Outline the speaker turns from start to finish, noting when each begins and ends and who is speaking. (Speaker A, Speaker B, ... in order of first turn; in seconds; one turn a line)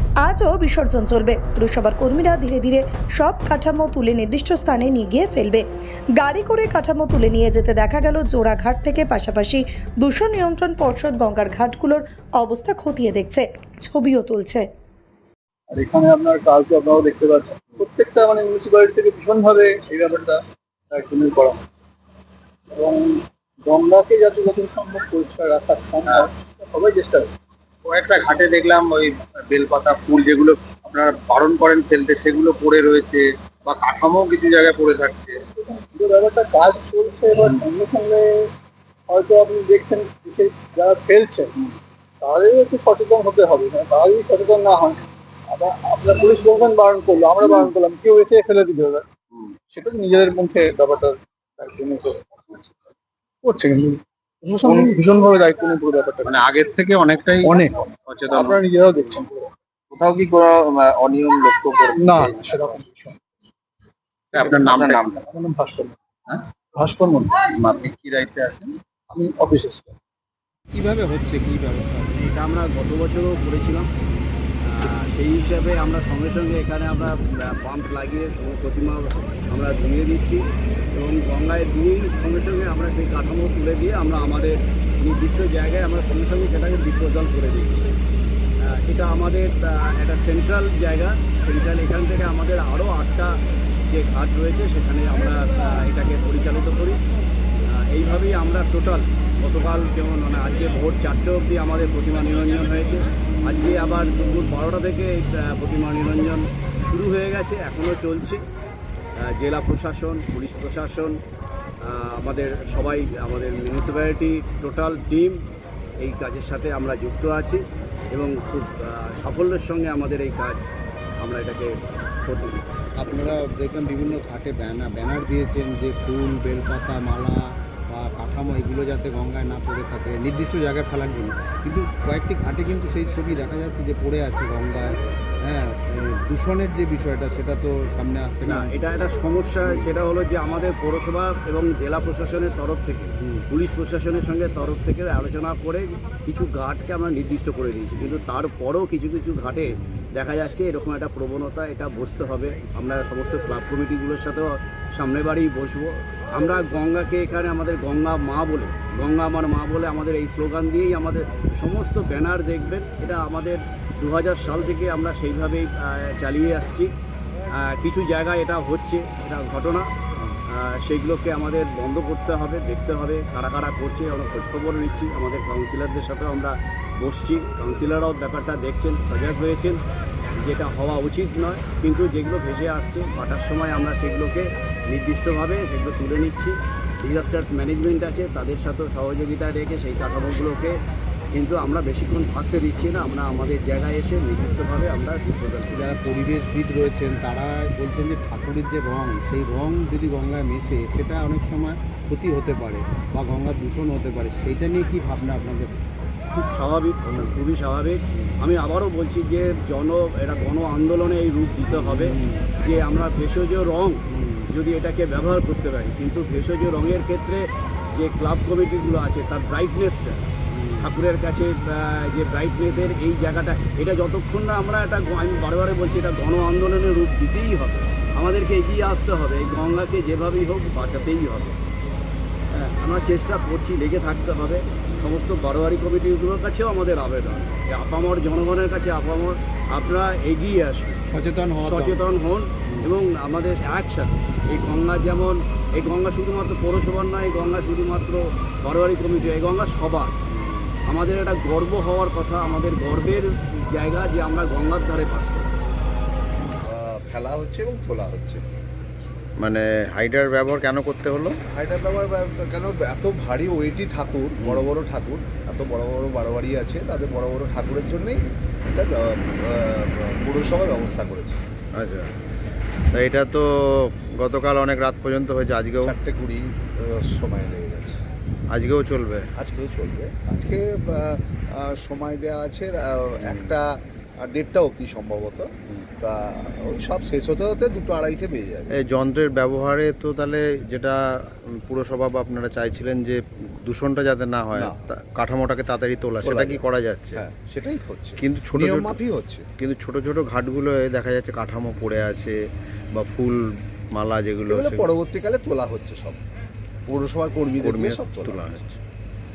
Speaker A: 0.2-5.7
Speaker A: 6.2-14.7
Speaker B: 15.7-21.6
Speaker B: 22.7-27.3
Speaker C: 27.9-35.4
Speaker B: 35.5-38.5
Speaker B: 39.1-41.5
Speaker B: 42.2-49.1
Speaker B: 49.7-52.4
Speaker B: 53.4-56.6
Speaker C: 54.6-55.1
Speaker C: 56.2-58.6
Speaker B: 57.4-59.5
Speaker C: 59.9-62.7
Speaker B: 62.0-63.2
Speaker C: 64.3-65.3
Speaker B: 64.4-66.0
Speaker B: 66.8-67.5
Speaker C: 67.4-68.8
Speaker B: 69.1-70.0
Speaker D: 70.7-72.1
Speaker E: 72.1-73.9
Speaker E: 74.7-87.9
Speaker E: 88.6-97.0
Speaker E: 97.7-108.4
Speaker E: 109.2-111.2
Speaker E: 111.8-115.4
Speaker E: 116.0-120.7
Speaker E: 121.2-122.7
Speaker D: 123.0-138.7
Speaker E: 138.4-166.9
Speaker E: 167.5-169.9
Speaker E: 170.5-179.8
Speaker E: 180.4-190.8
Speaker E: 191.3-196.2
Speaker D: 195.7-205.7
Speaker E: 206.3-231.6
Speaker D: 211.7-212.5
Speaker D: 214.1-214.4
Speaker D: 220.5-220.9
Speaker E: 232.5-241.0
Speaker D: 241.1-242.0
Speaker E: 241.6-250.2
Speaker E: 250.8-255.7
Speaker F: 256.6-258.4
Speaker D: 259.4-261.4
Speaker F: 261.5-271.4
Speaker D: 264.4-264.7
Speaker D: 271.8-272.1
Speaker D: 272.9-275.9
Speaker F: 275.8-278.0
Speaker D: 278.5-279.3
Speaker F: 279.4-288.7
Speaker D: 283.2-283.6
Speaker D: 288.7-297.2
Speaker F: 296.2-296.6
Speaker F: 297.2-299.5
Speaker D: 298.2-299.0
Speaker D: 299.6-302.4
Speaker D: 302.9-304.9
Speaker F: 304.5-306.2
Speaker F: 306.9-308.6
Speaker D: 307.6-308.8